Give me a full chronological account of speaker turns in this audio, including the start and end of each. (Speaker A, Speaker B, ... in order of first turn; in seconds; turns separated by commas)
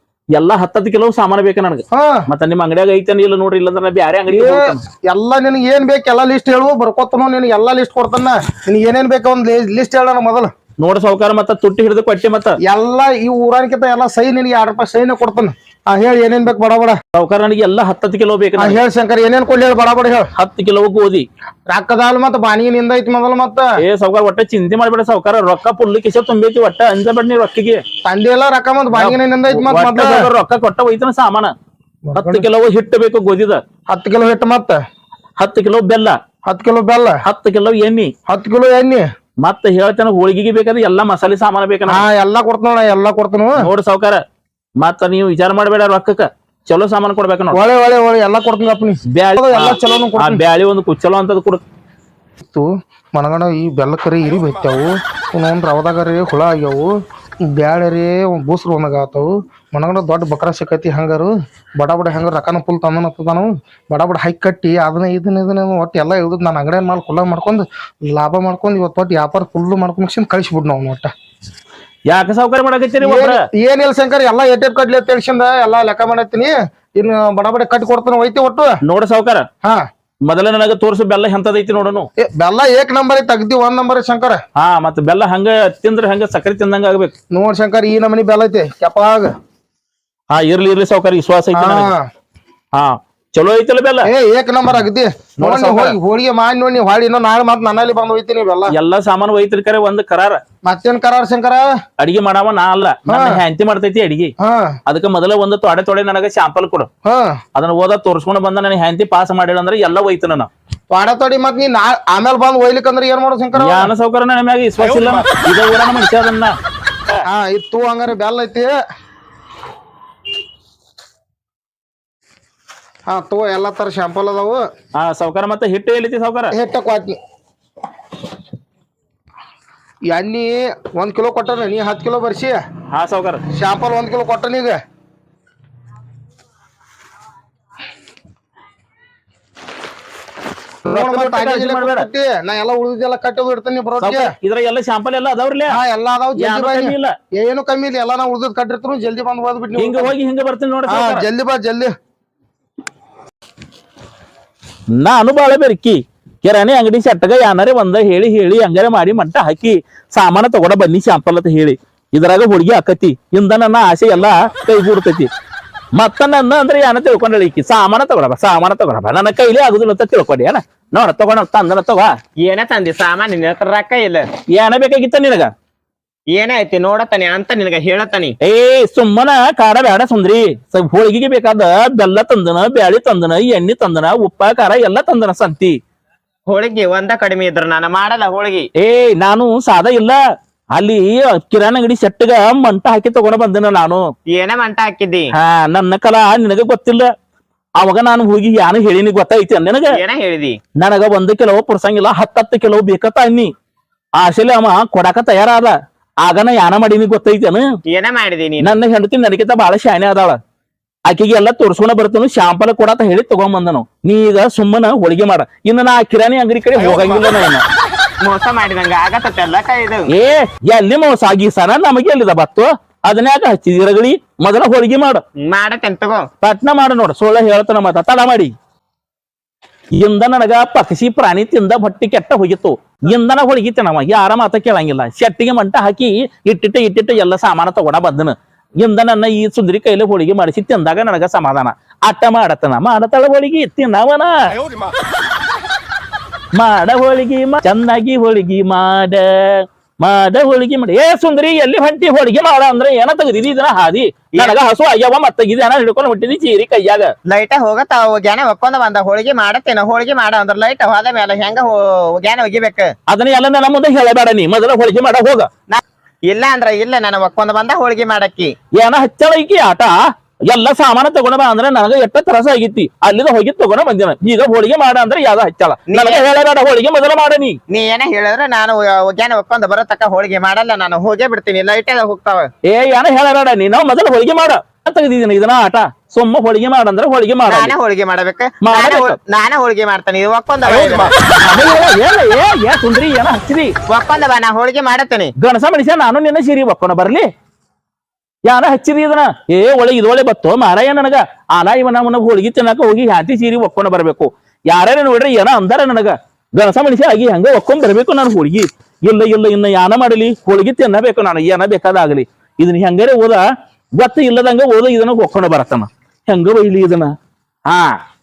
Speaker A: 0.3-4.8, Speaker B: 1.9-2.2, Speaker B: 4.3-10.5, Speaker A: 10.8-12.6, Speaker B: 12.7-17.0, Speaker A: 17.1-18.8, Speaker B: 18.6-20.3, Speaker A: 20.4-21.3, Speaker B: 21.7-23.8, Speaker A: 23.8-27.8, Speaker B: 28.1-30.3, Speaker A: 28.9-31.5, Speaker B: 32.1-32.5, Speaker A: 32.2-33.6, Speaker B: 33.9-34.8, Speaker A: 35.4-36.2, Speaker B: 36.5-37.2, Speaker A: 37.2-38.1, Speaker B: 38.3-39.1, Speaker A: 39.4-42.0, Speaker B: 41.9-43.7, Speaker A: 43.6-44.2, Speaker A: 44.8-47.6, Speaker B: 47.5-50.4, Speaker A: 49.1-51.6, Speaker B: 52.4-56.9, Speaker B: 57.4-71.1, Speaker A: 72.1-73.4, Speaker B: 73.0-78.8, Speaker A: 78.8-79.5, Speaker A: 80.2-82.1, Speaker B: 82.2-84.4, Speaker A: 84.6-87.1, Speaker B: 87.3-89.4, Speaker A: 90.3-91.9, Speaker B: 91.5-92.1, Speaker A: 92.7-94.1, Speaker B: 94.1-98.7, Speaker A: 95.4-96.0, Speaker A: 98.7-100.4, Speaker B: 100.7-101.7, Speaker A: 102.0-104.3, Speaker B: 103.1-103.4, Speaker B: 104.4-104.8, Speaker A: 104.9-106.9, Speaker B: 107.1-107.4, Speaker A: 107.5-110.5, Speaker B: 110.9-113.9, Speaker A: 113.6-116.6, Speaker B: 117.3-118.8, Speaker B: 123.1-124.7, Speaker A: 125.0-126.6, Speaker B: 126.5-127.2, Speaker B: 130.1-132.6, Speaker A: 132.9-133.4, Speaker B: 133.6-134.8, Speaker A: 140.9-142.1, Speaker B: 140.9-144.3, Speaker A: 144.0-145.8, Speaker B: 145.7-150.1, Speaker A: 146.4-147.1, Speaker A: 149.8-151.3, Speaker B: 150.9-151.9, Speaker A: 154.9-165.3, Speaker A: 166.0-172.1, Speaker C: 172.4-174.3, Speaker A: 174.5-175.5, Speaker C: 176.3-178.4, Speaker A: 178.4-185.8, Speaker C: 186.5-188.7, Speaker A: 188.8-190.2, Speaker A: 190.8-194.1, Speaker C: 194.3-195.3, Speaker A: 195.3-197.1, Speaker A: 197.8-200.0, Speaker C: 199.9-200.6, Speaker A: 200.8-203.5, Speaker A: 204.2-207.7, Speaker C: 207.9-208.8, Speaker A: 208.6-210.4, Speaker A: 211.1-217.6, Speaker C: 218.2-220.1, Speaker A: 220.1-225.2, Speaker C: 225.4-226.3, Speaker A: 226.4-228.5, Speaker A: 229.9-244.4, Speaker A: 246.6-257.1, Speaker C: 257.3-262.9, Speaker A: 263.1-265.5, Speaker C: 265.7-268.6, Speaker A: 268.8-277.6, Speaker C: 275.9-276.2, Speaker C: 277.7-282.5, Speaker A: 282.7-287.7, Speaker C: 287.5-291.1, Speaker A: 288.6-289.2, Speaker A: 290.7-293.7, Speaker C: 293.9-295.3, Speaker A: 295.4-297.3, Speaker A: 298.5-313.4, Speaker A: 314.0-317.1, Speaker A: 317.7-318.0